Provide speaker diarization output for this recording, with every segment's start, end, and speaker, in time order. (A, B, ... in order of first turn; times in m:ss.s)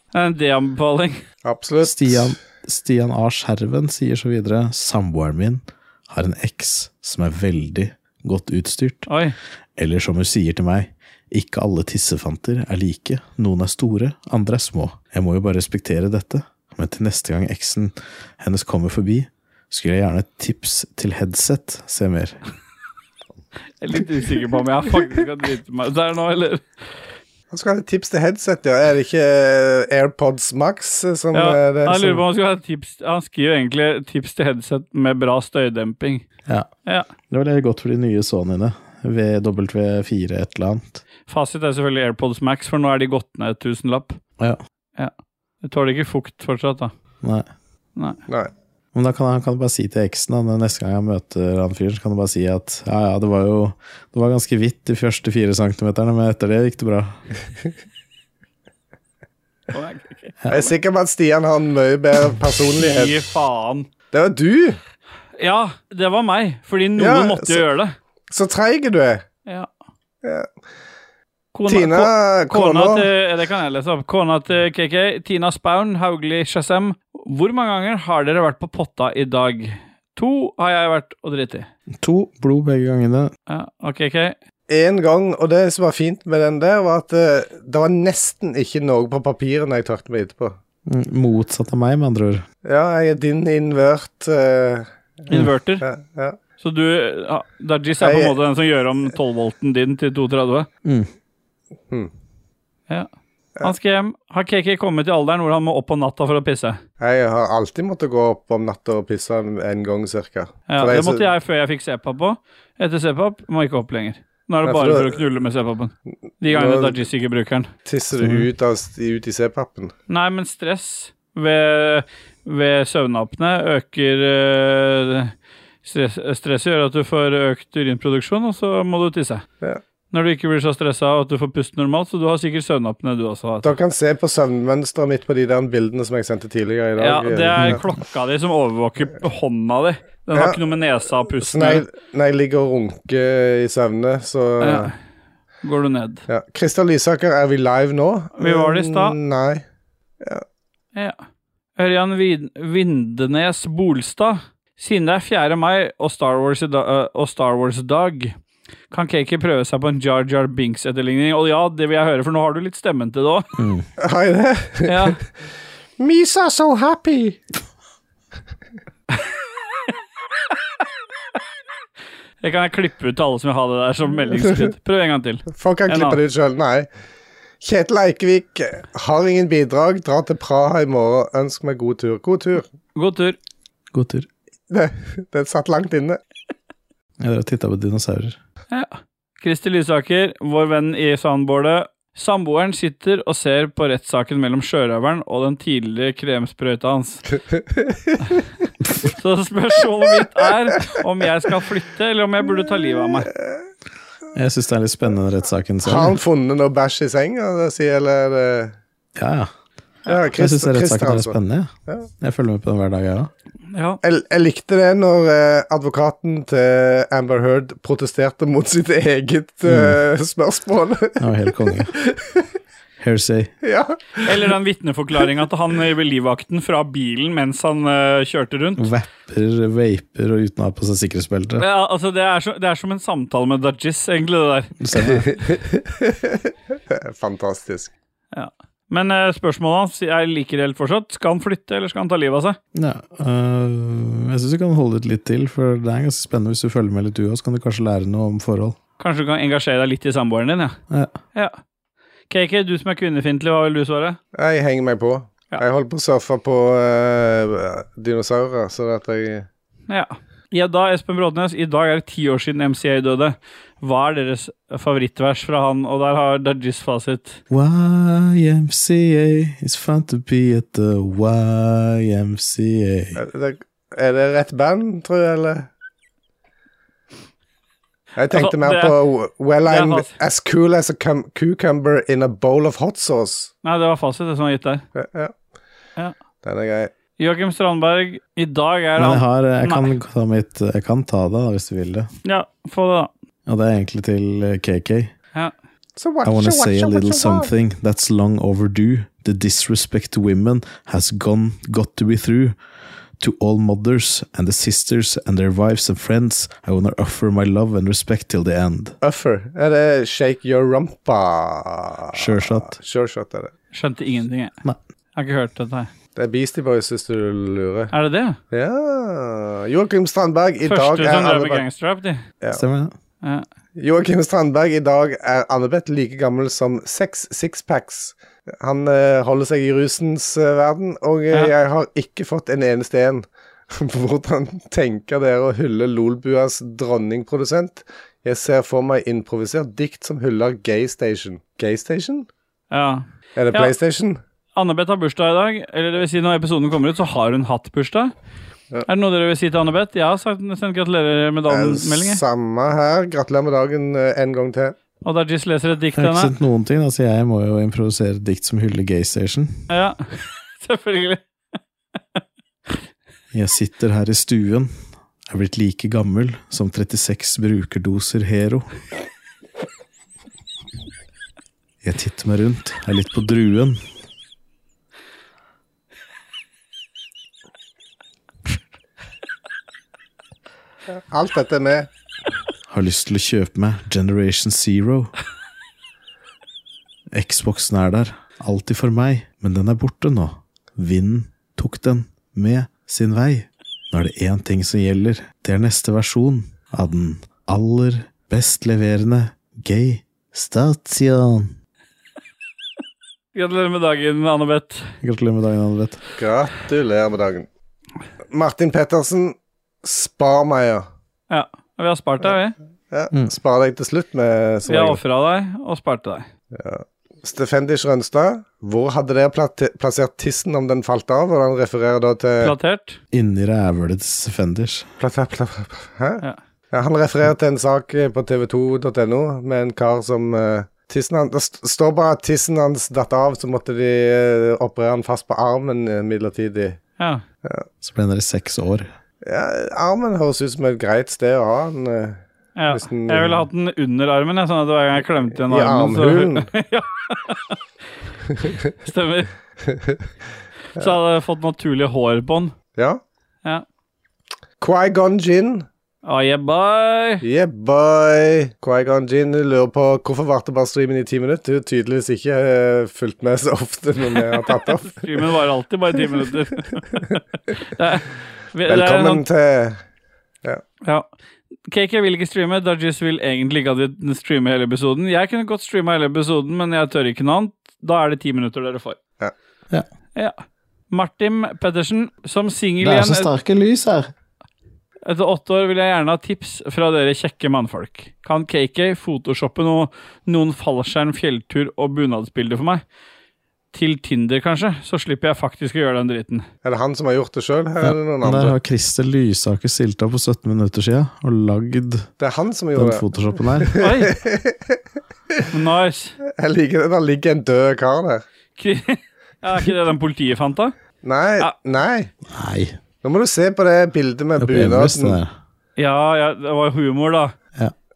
0:00.1-0:01.2 A
0:01.4-0:02.4 B
0:01.8-0:09.1 C
0:09.1-0:09.4 A
0:09.8-0:22.4 C
0:23.8-0:26.6 A
0:27.5-0:32.2 B
0:31.3-0:36.2 A
0:37.3-0:41.0 C
0:41.3-0:44.2 A
0:45.0-0:46.9 A
0:47.2-0:47.5 C
0:48.9-0:57.2 C
0:59.7-1:00.3 A
1:00.5-1:03.2 B
1:02.8-1:03.9 A
1:04.1-1:04.8 B
1:05.4-1:07.9 A
1:07.0-1:07.6 B
1:08.3-1:09.2 B
1:11.5-1:21.7 A
1:11.7-1:13.1 B
1:21.9-1:23.3 C
1:23.5-1:24.4 A
1:24.7-1:30.6 B
1:30.9-1:32.5 C
1:32.6-1:34.9 B
1:35.3-1:35.8 A
1:35.8-1:36.4 B
1:36.6-1:40.7 A
1:38.0-1:38.4 B
1:40.8-1:41.1 C
1:43.6-1:46.8 A
1:47.0-1:51.2 B
1:50.7-1:57.7 A
1:54.6-1:55.2 B
1:56.5-1:57.0 B
1:57.9-1:59.9 B
1:58.2-1:58.5 C
2:00.1-2:05.3 A
2:05.8-2:09.4 A
2:10.1-2:13.8 A
2:13.6-2:17.8 B
2:17.0-2:21.8 A
2:21.4-2:24.9 B
2:24.6-2:24.9 A
2:25.6-2:26.2 A
2:26.3-2:29.6 B
2:28.4-2:29.2 A
2:31.8-2:38.3 A
2:38.9-2:43.5 A
2:43.6-2:43.9 C
2:44.0-2:45.2 B
2:44.9-2:45.2 A
2:46.0-2:47.4 B
2:52.4-2:56.2 A
2:55.5-2:56.9 B
2:57.6-3:02.6 B
3:03.0-3:03.4 A
3:03.9-3:04.3 C
3:04.7-3:06.2 B
3:07.2-3:08.4 C
3:08.7-3:17.2 A
3:17.6-3:18.2 B
3:19.2-3:23.3 A
3:24.3-3:26.2 C
3:25.8-3:28.8 B
3:29.2-3:29.5 C
3:30.1-3:31.4 B
3:30.3-3:33.3 C
3:33.7-3:34.0 A
3:34.0-3:42.4 B
3:39.7-3:40.0 C
3:41.2-3:41.9 C
3:43.0-3:43.5 C
3:43.6-3:44.5 B
3:44.2-3:48.9 A
3:48.8-3:51.6 C
3:51.6-3:54.7 A
3:54.8-3:55.3 C
3:55.2-3:56.4 B
3:56.9-3:57.9 B
3:58.3-4:02.6 A
4:02.7-4:08.8 C
4:09.0-4:10.8 A
4:10.9-4:11.2 C
4:12.3-4:14.2 A
4:14.4-4:19.5 B
4:19.9-4:27.4 A
4:27.5-4:33.2 C
4:33.2-4:35.7 B
4:38.2-4:43.5 B
4:38.3-4:39.0 A
4:39.7-4:40.1 A
4:43.6-4:44.8 A
4:45.0-4:45.3 B
4:46.4-4:46.9 B
4:47.2-4:49.9 A
4:49.0-4:52.1 C
4:52.2-4:53.1 A
4:53.5-4:55.1 C
4:56.0-4:57.5 B
4:56.2-5:02.6 C
5:03.2-5:09.0 C
5:09.0-5:13.5 B
5:12.1-5:12.8 C
5:13.7-5:14.5 A
5:15.2-5:15.9 A
5:16.2-5:17.9 B
5:17.9-5:18.4 A
5:18.5-5:21.6 B
5:20.6-5:22.2 A
5:22.5-5:22.9 C
5:23.8-5:42.3 B
5:42.7-5:43.7 A
5:43.4-5:44.2 B
5:44.6-5:48.1 A
5:48.9-5:52.2 A
5:51.5-5:54.8 B
5:55.0-5:56.3 A
5:56.0-5:59.6 C
5:59.7-6:01.2 A
6:03.3-6:04.7 C
6:05.3-6:08.7 C
6:11.8-6:13.8 C
6:20.9-6:21.9 B
6:22.7-6:25.1 C
6:27.1-6:41.5 C
6:43.3-6:44.9 A
6:45.0-6:46.0 C
6:46.2-6:47.5 B
6:48.3-6:50.9 B
6:51.3-6:52.6 A
6:52.9-6:55.0 B
6:54.7-6:56.3 A
6:56.5-7:02.5 B
7:02.4-7:03.0 A
7:03.1-7:04.9 C
7:05.0-7:16.8 B
7:17.8-7:18.9 C
7:19.2-7:22.2 B
7:22.6-7:27.6 A
7:22.7-7:23.4 B
7:25.4-7:26.5 B
7:28.8-7:29.3 A
7:29.7-7:30.0 B
7:30.8-7:32.6 A
7:32.8-7:33.0 B
7:34.6-7:35.7 B
7:36.0-7:37.2 A
7:37.2-7:45.1 B
7:44.7-7:49.2 A
7:48.7-7:49.8 B
7:51.7-7:59.0 A
8:00.2-8:03.3 A
8:02.8-8:04.1 C
8:05.0-8:12.8 A
8:13.7-8:16.5 A
8:16.6-8:18.6 B
8:17.8-8:22.1 C
8:22.2-8:24.8 B
8:22.8-8:23.7 C
8:23.8-8:24.2 A
8:25.5-8:26.2 A
8:26.4-8:28.2 B
8:28.6-8:30.7 A
8:31.0-8:32.1 B
8:32.3-8:32.8 C
8:33.0-8:35.2 B
8:34.4-8:35.3 C
8:35.8-8:37.3 A